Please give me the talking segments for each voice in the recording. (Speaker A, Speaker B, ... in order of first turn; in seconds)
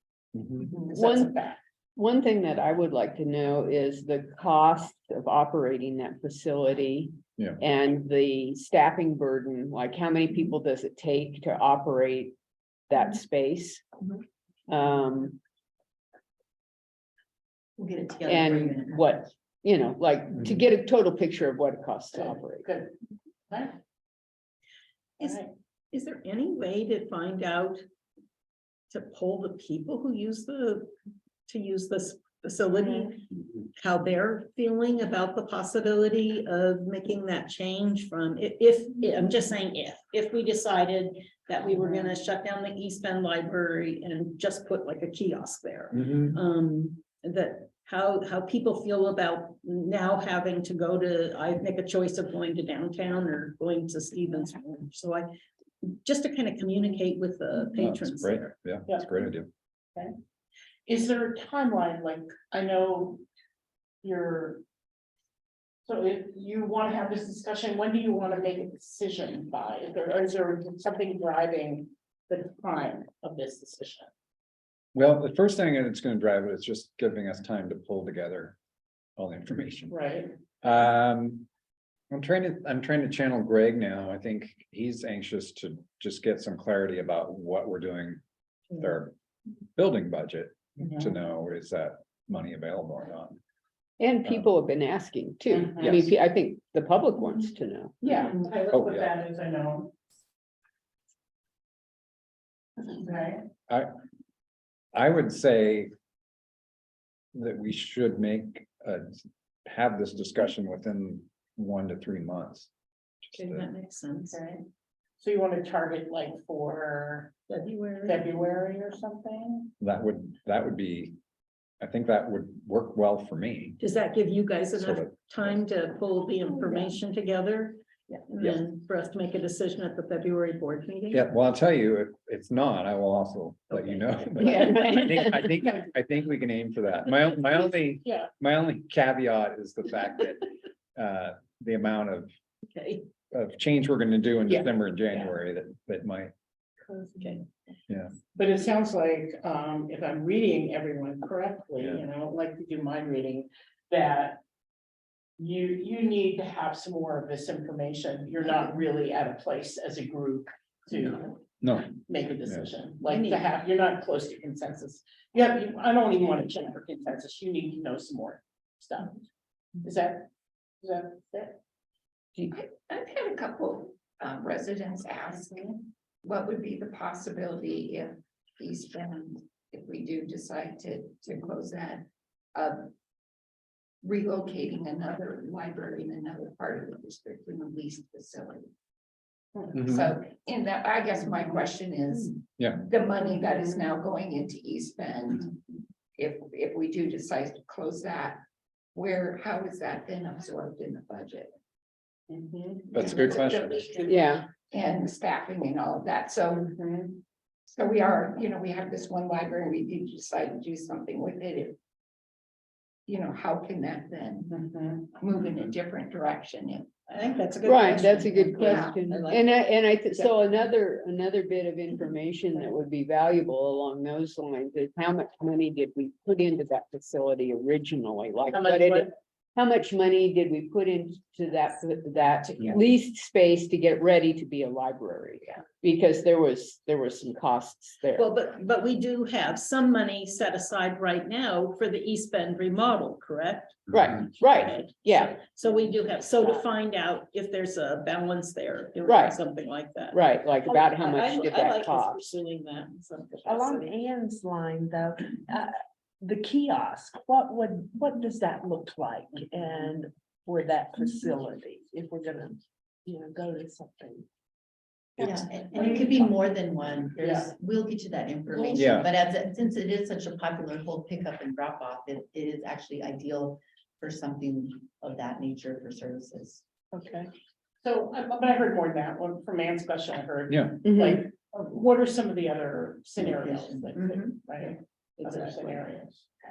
Speaker A: 0.4-0.7, 46.0-46.4, 57.8-59.5, 74.9-78.6, 79.2-80.0, 80.6-81.5, 82.1-89.1, 89.8-93.4, 95.8-96.1, 98.7-99.1, 104.9-105.9, 107.3-109.1, 109.7-112.7, 113.3-113.7, 119.8-121.2, 121.8-123.8, 124.7-125.1, 131.1-142.3, 143.3-146.3, 147.9-148.2, 151.8-152.1, 161.6-162.7, 189.7-190.0, 192.6-192.8, 202.9-203.8, 268.8-269.1, 280.5-280.8
Speaker B: 0.6-1.6, 22.1-22.9, 23.5-23.8, 25.2-25.5, 60.9-63.2, 64.0-64.6, 65.8-74.1, 79.9-80.3, 90.8-91.1, 95.6-95.9, 98.0-99.9, 102.8-103.5, 114.3-114.7, 115.2-117.3, 118.0-119.8, 138.0-138.3, 148.3-154.4, 155.4-161.4, 162.0-169.2, 169.8-170.3, 170.8-171.6, 202.3-202.9, 206.8-207.1, 214.5-215.0, 228.5-229.1, 267.2-267.5, 277.8-286.3
Speaker C: 0.9-1.4, 2.0-12.3, 12.9-13.8, 14.7-15.4, 18.3-22.7, 94.0-98.1, 134.4-135.3, 204.1-204.5, 217.7-238.3, 243.9-245.4, 249.1-249.4, 250.1-252.2, 280.9-281.2
Speaker D: 17.8-19.2, 265.2-276.6, 283.2-285.8
Speaker E: 25.9-27.8, 28.9-30.9, 31.5-55.3, 55.8-58.5, 113.3-114.4, 117.5-118.3, 123.8-131.2, 133.7-134.9, 142.7-143.1, 147.0-147.4, 217.1-220.3, 238.2-253.9
Speaker F: 172.5-182.9, 184.0-188.7, 189.7-195.6, 196.2-198.4, 198.9-201.5, 202.9-206.7, 207.7-211.8, 213.1-216.9, 218.5-218.9
Speaker G: 253.5-264.3, 265.2-265.7, 276.9-277.3